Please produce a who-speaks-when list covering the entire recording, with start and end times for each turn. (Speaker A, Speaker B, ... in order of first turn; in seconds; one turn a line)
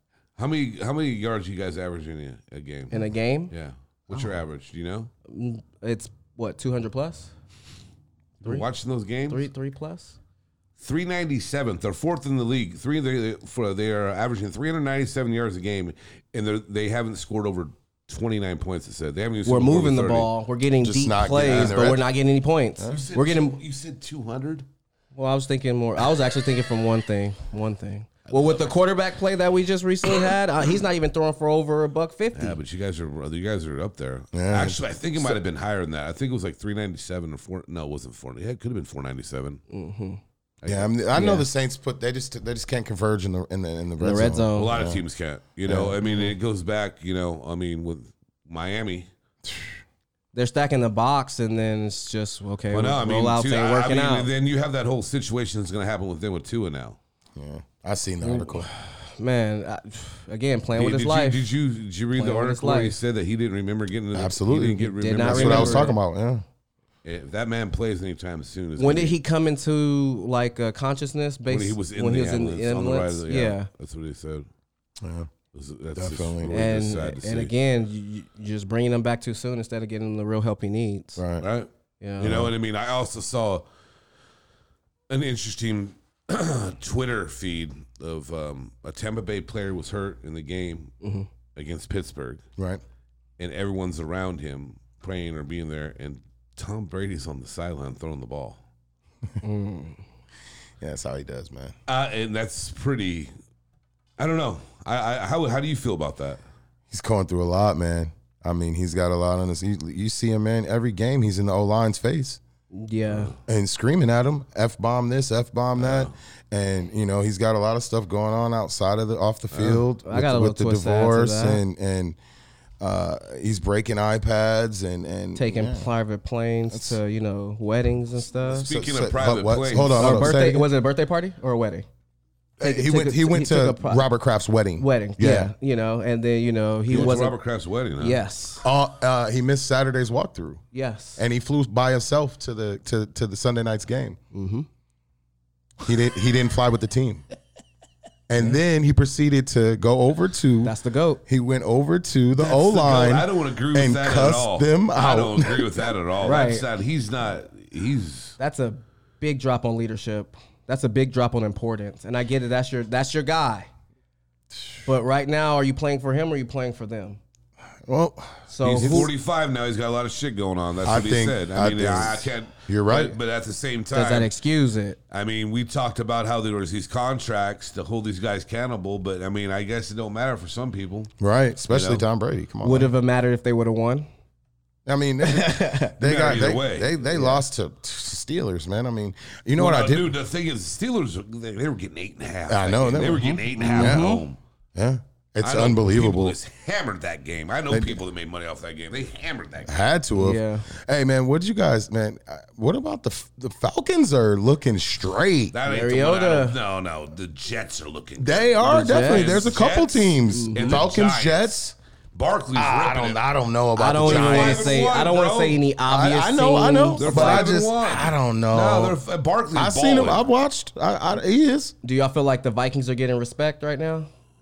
Speaker A: 0.4-5.1
Speaker B: 2.9-3.5
Speaker B: 5.3-7.3
Speaker A: 8.4-9.4
Speaker B: 9.3-10.2
Speaker A: 10.8-20.3
Speaker B: 19.4-23.6
Speaker C: 20.8-22.0
Speaker A: 21.4-21.8
Speaker A: 22.9-24.7
Speaker B: 25.1-32.6
Speaker A: 32.3-39.6
Speaker C: 34.3-34.8
Speaker B: 39.7-40.2
Speaker A: 40.6-40.9
Speaker C: 40.7-45.0
Speaker B: 41.1-41.5
Speaker B: 44.0-44.8
Speaker A: 44.5-49.1
Speaker C: 45.6-46.0
Speaker C: 49.5-49.8
Speaker B: 50.3-54.3
Speaker A: 52.7-57.0
Speaker C: 57.4-58.7
Speaker B: 58.2-61.4
Speaker A: 60.7-65.9
Speaker B: 62.1-63.0
Speaker C: 64.1-66.4
Speaker B: 65.0-66.0
Speaker A: 67.0-69.2
Speaker B: 68.8-73.7
Speaker A: 71.5-74.5
Speaker C: 75.0-75.3
Speaker A: 75.5-77.5
Speaker C: 76.0-76.5
Speaker B: 76.5-81.2
Speaker C: 81.2-81.4
Speaker A: 81.4-83.6
Speaker B: 82.0-82.5
Speaker A: 85.1-90.9
Speaker B: 91.0-91.3
Speaker A: 91.5-92.4
Speaker A: 93.4-98.6
Speaker B: 99.4-100.0
Speaker C: 100.8-101.7
Speaker A: 101.9-103.3
Speaker A: 104.2-106.4
Speaker C: 106.9-112.4
Speaker B: 112.7-113.3
Speaker C: 113.5-122.2
Speaker A: 115.8-116.1
Speaker A: 119.5-119.8
Speaker B: 120.0-121.6
Speaker C: 122.8-125.9
Speaker B: 125.3-128.7
Speaker C: 126.7-127.0
Speaker A: 128.5-130.3
Speaker C: 128.5-130.7
Speaker B: 130.0-131.8
Speaker C: 132.6-135.5
Speaker B: 132.6-134.1
Speaker B: 134.8-137.4
Speaker A: 136.9-138.2
Speaker B: 138.0-138.6
Speaker C: 138.6-140.6
Speaker B: 140.7-141.2
Speaker C: 141.2-144.2
Speaker B: 144.3-144.7
Speaker C: 145.8-147.2
Speaker C: 148.3-150.7
Speaker B: 150.6-151.2
Speaker C: 151.3-155.7
Speaker A: 152.4-158.3
Speaker B: 156.2-156.7
Speaker B: 158.4-163.7
Speaker B: 164.8-167.2
Speaker C: 167.8-169.1
Speaker B: 168.5-169.1
Speaker A: 168.6-174.3
Speaker C: 170.8-173.1
Speaker B: 173.9-175.0
Speaker A: 175.1-181.1
Speaker C: 181.2-182.9
Speaker A: 181.7-182.0
Speaker B: 182.6-184.1
Speaker C: 184.8-190.1
Speaker B: 185.2-185.9
Speaker A: 186.0-186.9
Speaker B: 187.1-187.4
Speaker A: 189.6-194.4
Speaker C: 192.5-194.0
Speaker B: 193.2-194.2
Speaker C: 194.7-196.3
Speaker A: 195.4-199.8
Speaker C: 197.7-198.0
Speaker C: 199.7-205.6
Speaker B: 200.1-200.7
Speaker A: 205.5-211.5
Speaker B: 205.7-206.6
Speaker C: 208.2-211.7
Speaker B: 208.6-209.4
Speaker B: 210.3-210.8
Speaker A: 212.1-213.2
Speaker C: 212.5-214.8
Speaker B: 213.8-217.5
Speaker A: 214.0-215.6
Speaker C: 215.9-219.0
Speaker A: 217.0-220.2
Speaker C: 219.5-221.7
Speaker B: 221.8-224.1